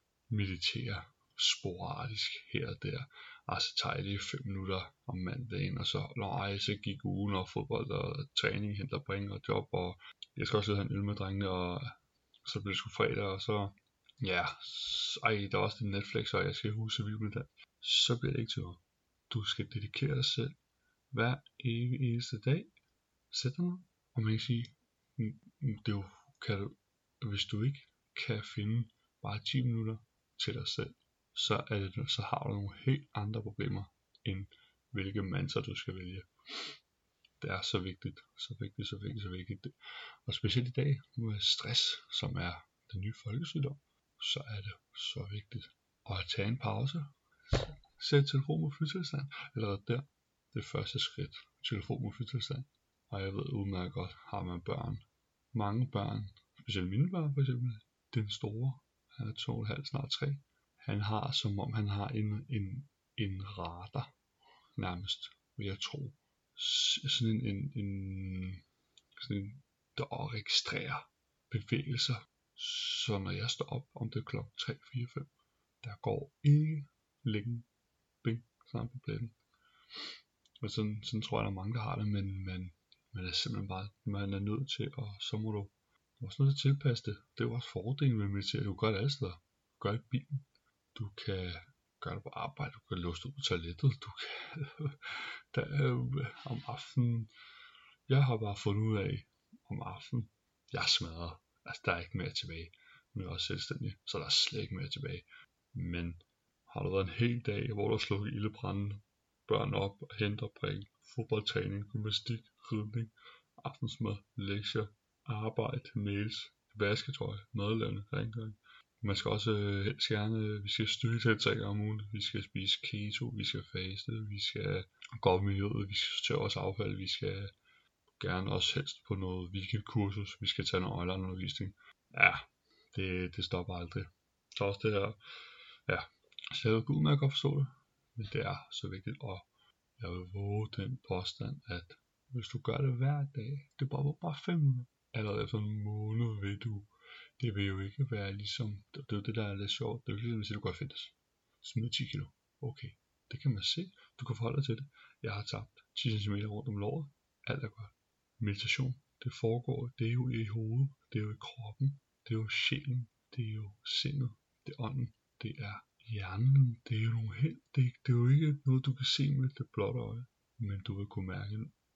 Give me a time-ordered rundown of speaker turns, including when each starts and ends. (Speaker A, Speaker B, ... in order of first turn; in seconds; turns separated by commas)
Speaker A: 0.3-20.6, Speaker A: 21.1-22.7, Speaker A: 23.3-36.7, Speaker A: 37.4-39.7, Speaker A: 40.2-64.1, Speaker A: 64.8-68.6, Speaker A: 69.2-75.3, Speaker A: 75.8-77.7, Speaker A: 78.2-79.4, Speaker A: 80.6-97.3, Speaker A: 98.1-127.5, Speaker A: 128.2-135.2, Speaker A: 135.9-171.8